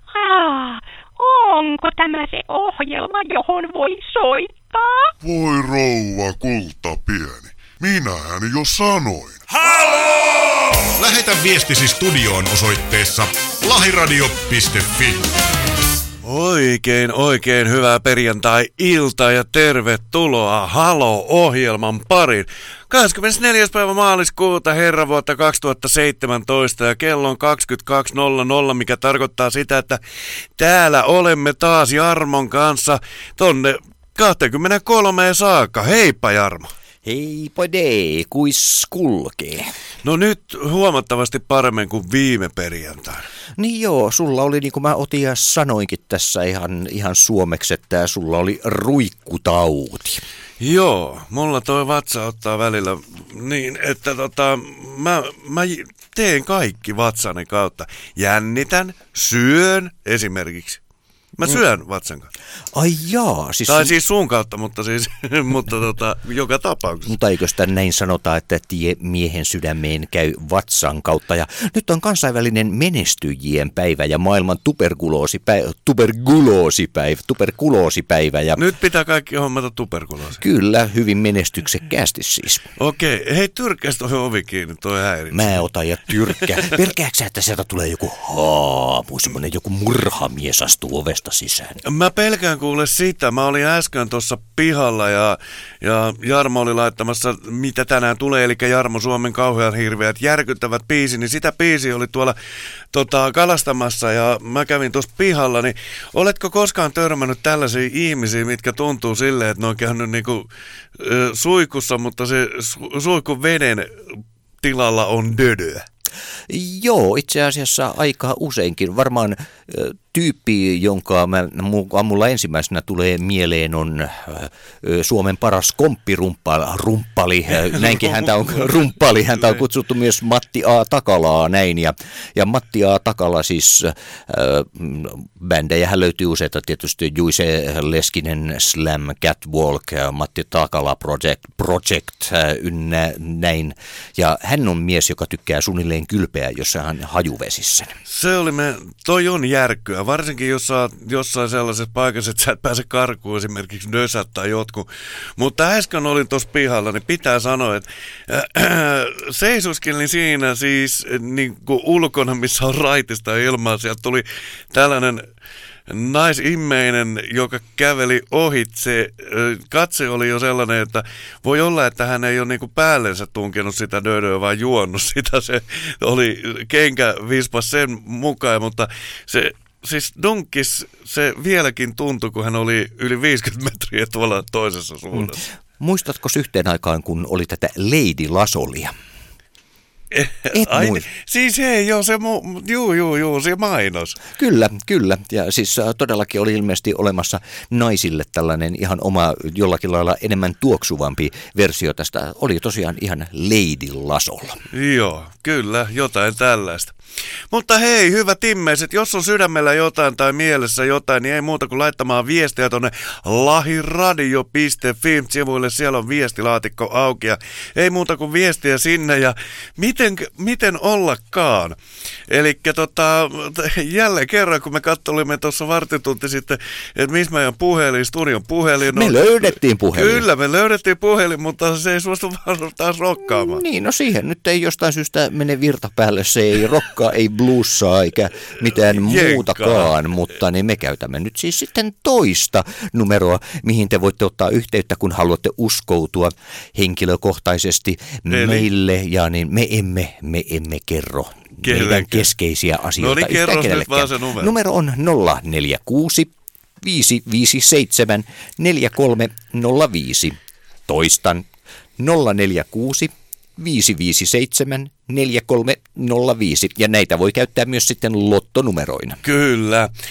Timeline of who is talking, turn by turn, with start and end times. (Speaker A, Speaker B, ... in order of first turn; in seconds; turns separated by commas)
Speaker A: 0.1-5.1, Speaker B: 5.2-9.4, Speaker C: 10.9-15.3, Speaker D: 16.2-30.0, Speaker D: 30.6-36.7, Speaker E: 37.0-39.7, Speaker D: 40.0-43.2, Speaker E: 43.6-50.2, Speaker D: 50.6-60.8, Speaker D: 61.4-62.3, Speaker E: 62.7-64.0, Speaker D: 63.7-67.1, Speaker E: 67.1-78.6, Speaker D: 78.6-80.4, Speaker E: 80.4-82.7, Speaker D: 82.8-85.6, Speaker E: 85.3-91.8, Speaker D: 91.8-102.3, Speaker D: 102.9-110.5, Speaker D: 111.0-113.9, Speaker D: 114.6-115.8, Speaker E: 116.5-147.9, Speaker D: 127.7-128.7, Speaker D: 129.3-129.6, Speaker D: 148.1-165.2, Speaker D: 165.9-185.4, Speaker E: 185.1-188.9, Speaker D: 190.1-194.2, Speaker E: 190.5-191.0, Speaker E: 194.4-204.6, Speaker D: 204.7-206.9, Speaker D: 207.5-221.8, Speaker D: 222.3-233.6, Speaker E: 228.9-230.2, Speaker E: 233.3-260.4, Speaker D: 238.9-239.9, Speaker D: 248.3-248.7, Speaker D: 251.6-252.3, Speaker D: 253.0-254.5, Speaker E: 260.9-261.5, Speaker E: 262.0-269.2, Speaker D: 269.2-269.9